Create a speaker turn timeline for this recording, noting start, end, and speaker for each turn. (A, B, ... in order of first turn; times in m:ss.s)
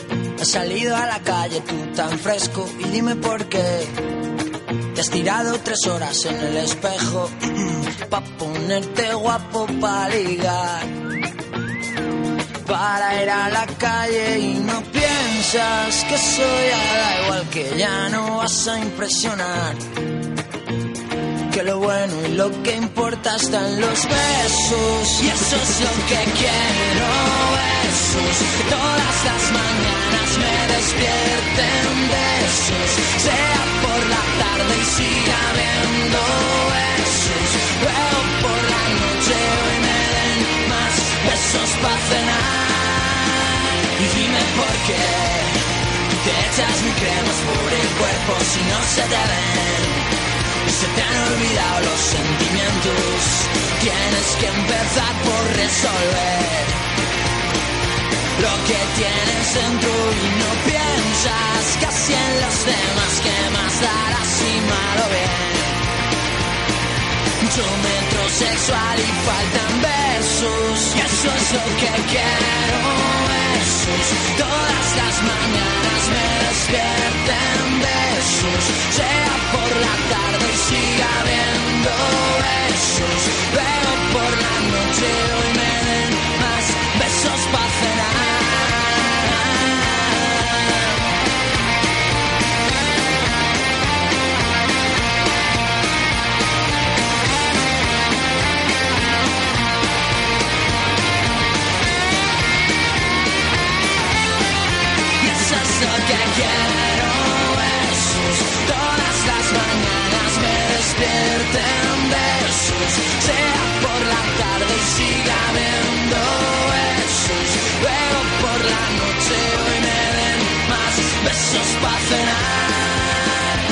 0:00.4-0:03.9 A
0:05.0-0:10.9 A
0:12.7-0:19.8 A
0:21.5-0:43.3 A
0:44.0-0:45.5 A
0:46.2-0:50.0 A
0:50.7-0:56.8 A
0:58.4-1:05.8 A
1:07.4-1:30.1 A
1:45.2-2:03.3 A